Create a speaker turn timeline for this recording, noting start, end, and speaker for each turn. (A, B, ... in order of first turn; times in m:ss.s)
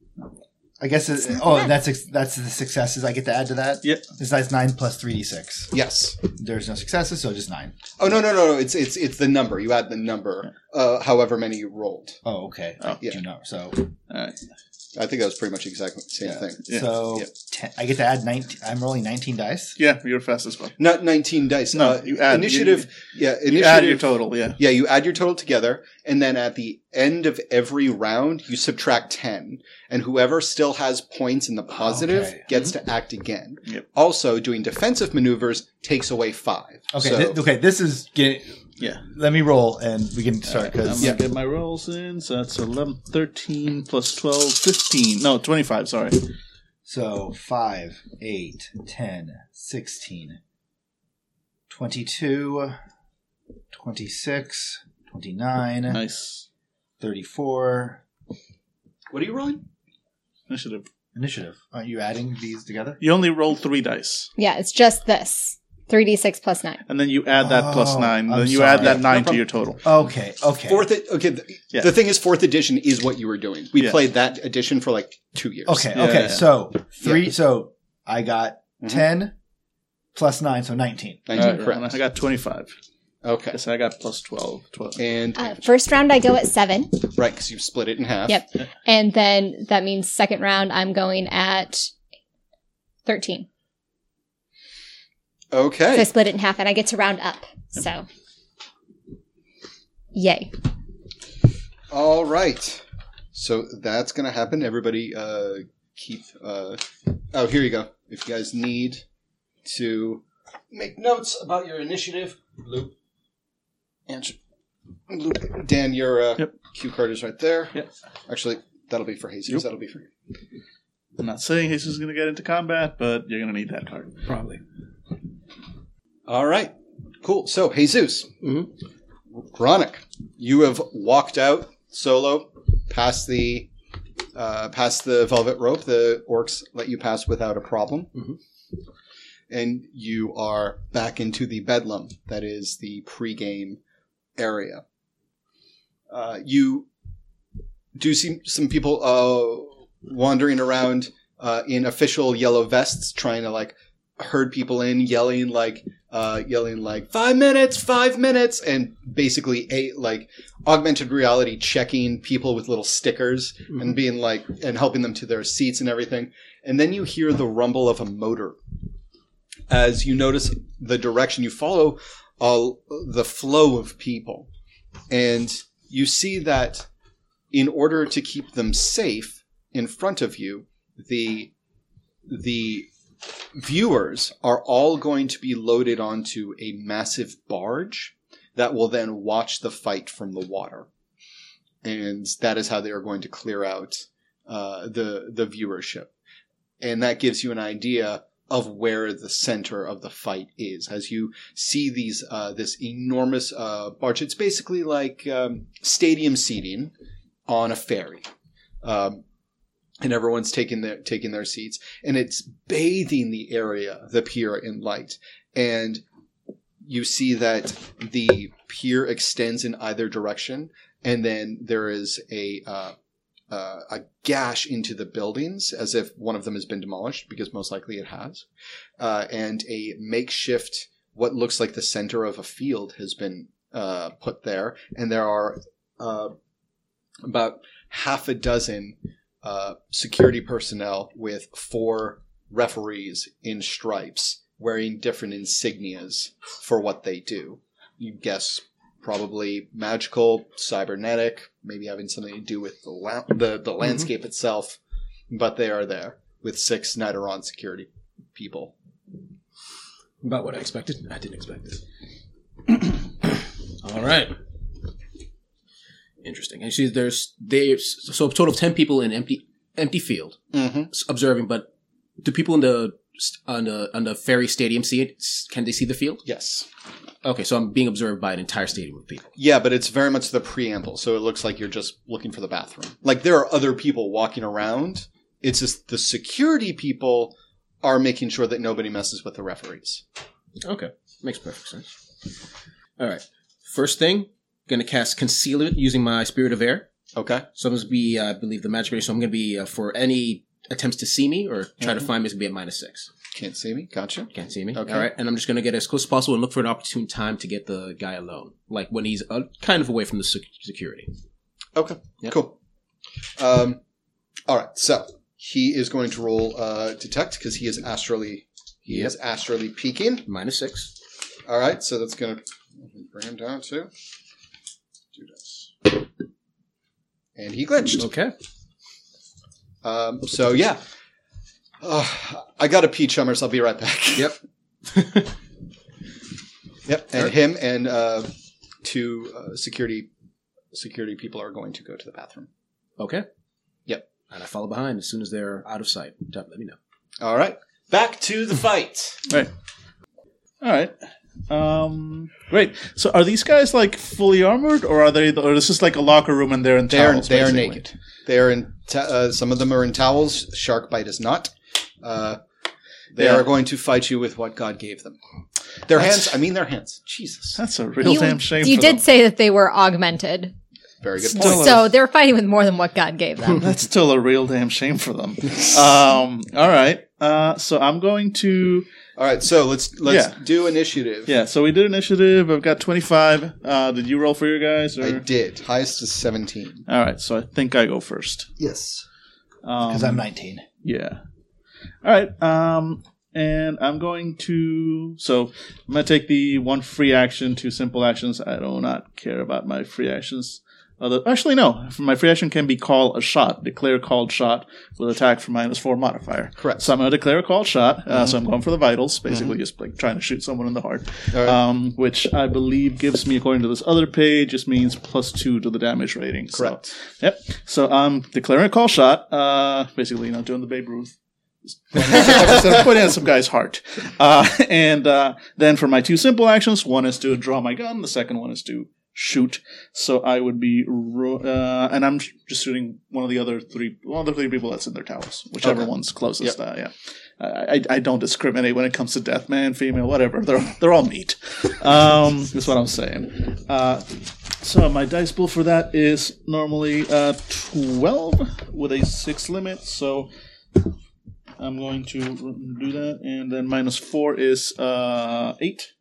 0:00.8-0:07.7 A
0:05.7-0:06.2 B
0:08.0-0:12.2 B
0:12.2-0:13.9 A
0:14.1-0:14.3 C
0:14.9-0:16.6 B
0:16.2-0:19.8 A
0:19.8-0:20.8 C
0:20.8-0:37.4 B
0:21.7-0:22.8 C
0:23.4-0:24.6 C
0:31.7-0:32.4 A
0:36.9-0:41.1 A
0:40.5-0:46.2 C
0:46.8-0:50.4 A
0:51.7-0:52.8 A
0:53.7-0:56.0 A
0:55.9-0:56.4 C
0:57.0-0:58.0 A
0:59.1-0:59.6 B
1:00.5-1:00.9 C
1:01.1-1:03.0 A
1:03.0-1:04.3 C
1:04.4-1:06.8 D
1:06.9-1:09.8 C
1:07.4-1:09.1 A
1:08.8-1:09.4 B
1:09.8-1:10.9 A
1:10.7-1:15.9 B
1:15.6-1:19.3 A
1:15.9-1:16.5 C
1:17.0-1:17.3 B
1:20.1-1:21.6 A
1:21.3-1:22.0 B
1:21.3-1:22.7 C
1:23.2-1:23.6 B
1:23.5-1:25.0 C
1:25.0-1:25.6 B
1:25.4-1:27.0 D
1:27.1-1:28.4 B
1:28.3-1:31.9 D
1:33.0-1:33.5 D
1:35.5-1:36.1 B
1:35.9-1:38.0 D
1:40.1-1:40.5 D
1:41.9-1:49.0 B
1:49.6-1:52.9 B
1:54.1-1:54.4 B
1:55.1-1:57.7 B
1:58.3-2:00.1 B
2:01.2-2:04.3 C
2:04.3-2:04.6 E
2:06.3-2:08.3 B
2:08.4-2:08.7 E
2:09.4-2:13.7 B
2:14.3-2:18.1 B
2:19.5-2:23.8 B
2:24.4-2:24.8 B
2:26.1-2:26.9 B
2:28.0-2:48.6 B
2:49.7-2:54.5 B
2:55.1-2:56.9 B
2:57.5-3:01.5 B
3:02.3-3:02.9 B
3:03.5-3:10.9 B
3:11.8-3:16.1 B
3:16.8-3:26.9 B
3:27.5-3:28.3 B
3:28.8-3:29.2 B
3:30.0-3:36.0 B
3:36.8-3:42.9 B
3:43.5-3:48.4 B
3:49.0-3:56.3 B
3:57.2-4:14.8 B
4:15.3-4:18.7 B
4:20.2-4:21.8 E
4:22.7-4:24.4 E
4:26.2-4:30.4 E
4:30.5-4:30.9 B
4:30.9-4:31.7 E
4:32.2-4:36.2 E
4:36.2-4:36.6 B
4:37.2-4:39.3 E
4:39.4-4:50.0 B
4:50.6-4:51.9 E
4:53.0-4:56.9 E
4:57.2-4:57.4 B
4:57.6-5:03.1 E
5:03.3-5:05.1 B
5:04.3-5:11.1 E
5:11.7-5:12.6 B
5:13.4-5:13.8 B
5:14.5-5:20.3 B
5:20.2-5:20.9 E
5:21.4-5:23.9 B
5:25.1-5:25.9 B
5:27.4-5:28.1 B
5:28.0-5:28.3 E
5:29.8-5:30.8 B
5:31.8-5:34.4 B
5:34.9-5:35.3 E
5:36.8-5:38.3 B
5:38.8-5:40.1 B
5:40.7-5:42.5 B
5:43.0-5:43.2 E
5:44.3-5:46.8 E
5:47.2-5:49.2 B
5:50.6-5:50.9 C
5:51.5-5:57.8 C
5:56.9-6:02.4 B
6:03.1-6:05.2 B
6:03.2-6:03.4 C
6:05.8-6:07.6 B
6:07.6-6:09.0 C
6:08.0-6:10.5 D
6:11.0-6:11.8 B
6:11.2-6:13.6 D
6:11.3-6:11.8 C
6:13.6-6:18.8 C
6:19.2-6:21.3 B
6:20.0-6:20.4 C
6:21.3-6:25.2 C
6:25.0-6:26.8 B
6:26.9-6:28.5 C
6:28.6-6:29.0 A
6:29.6-6:30.2 C
6:29.8-6:30.6 A
6:30.8-6:31.2 C
6:32.0-7:01.1 C
6:46.6-6:46.9 B
6:49.3-6:49.5 B
6:51.3-6:51.6 B
6:56.5-6:56.9 B
7:01.7-7:30.3 C
7:02.0-7:02.8 B
7:15.6-7:16.6 B
7:31.6-7:35.9 C